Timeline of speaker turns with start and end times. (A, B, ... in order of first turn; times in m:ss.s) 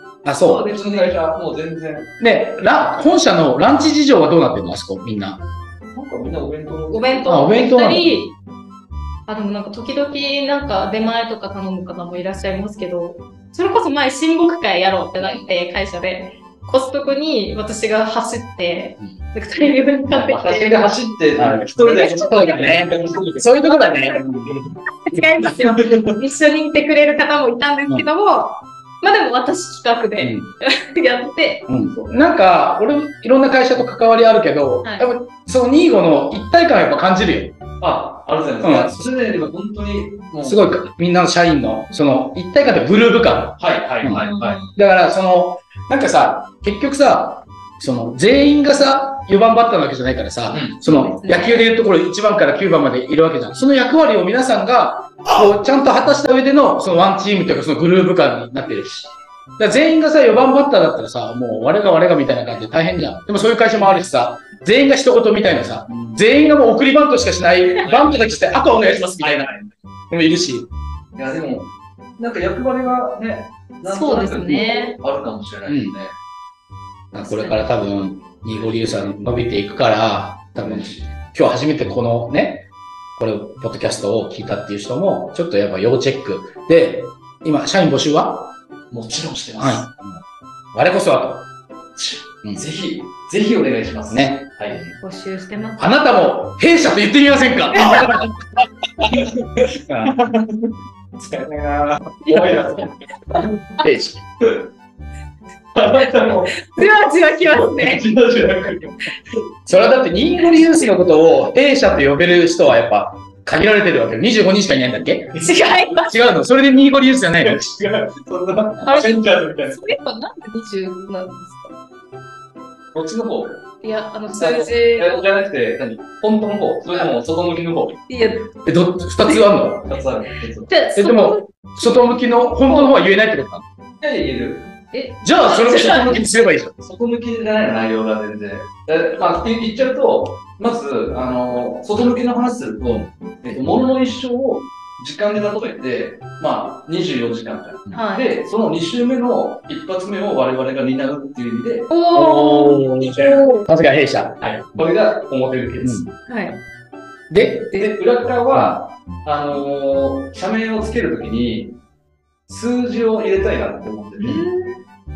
0:00.2-0:00.7 A
0:00.4-0:01.1 B
0:00.5-0:02.1 C
0:02.2-0:05.4 A
0:05.9-0:07.3 C
0:06.9-0:08.3 B
0:07.3-0:08.1 A
0:09.3-0:20.9 B
0:20.1-0:23.5 C
0:21.4-0:24.4 A
0:21.8-0:22.7 B
0:23.8-0:24.2 B
0:24.3-0:24.7 C
0:25.0-0:31.6 B
0:25.6-0:26.2 C
0:30.2-0:30.5 A
0:31.7-0:37.5 A
0:34.8-0:35.1 B
0:37.8-0:40.7 C
0:38.6-0:38.9 A
0:40.4-0:58.9 A
0:43.6-0:44.6 C
0:44.1-0:44.8 B
0:50.5-0:50.8 C
0:50.8-0:51.7 B
0:55.2-0:55.5 C
0:59.6-1:09.5 A
1:05.9-1:06.2 C
1:07.8-1:09.7 C
1:10.1-1:10.7 A
1:11.2-1:16.1 C
1:13.8-1:15.0 B
1:15.6-1:15.9 A
1:17.1-1:28.5 A
1:17.2-1:17.6 B
1:18.5-1:19.2 C
1:20.6-1:21.1 C
1:28.9-1:29.9 C
1:29.6-1:30.2 A
1:30.7-1:31.5 A
1:31.9-1:34.8 C
1:34.1-1:35.0 A
1:35.0-1:35.9 B
1:35.8-1:38.3 A
1:37.8-1:38.3 C
1:39.0-1:43.0 C
1:39.9-1:40.1 A
1:42.2-1:42.5 B
1:42.3-1:42.8 A
1:43.8-1:44.2 A
1:44.4-1:44.7 C
1:45.7-1:46.6 C
1:46.5-1:48.0 B
1:47.5-1:49.0 C
1:49.6-1:55.5 A
1:55.3-1:55.7 C
1:55.4-1:56.1 B
1:56.0-1:57.6 A
1:57.4-1:59.8 C
1:58.8-2:01.7 B
2:02.9-2:03.6 C
2:03.8-2:05.2 B
2:04.4-2:08.0 C
2:08.1-2:08.5 B
2:08.6-2:09.9 A
2:09.8-2:10.7 C
2:10.7-2:12.9 B
2:11.0-2:13.6 A
2:14.0-2:14.7 C
2:14.9-2:16.2 B
2:15.2-2:16.7 A
2:15.8-2:31.9 C
2:27.9-2:28.3 B
2:31.9-2:33.5 B
2:32.1-2:34.8 A
2:33.0-2:33.4 C
2:34.4-2:36.0 C
2:35.8-2:36.1 A
2:36.2-2:36.6 B
2:37.3-2:37.9 A
2:37.8-2:41.8 C
2:42.5-2:44.4 C
2:44.2-2:44.8 B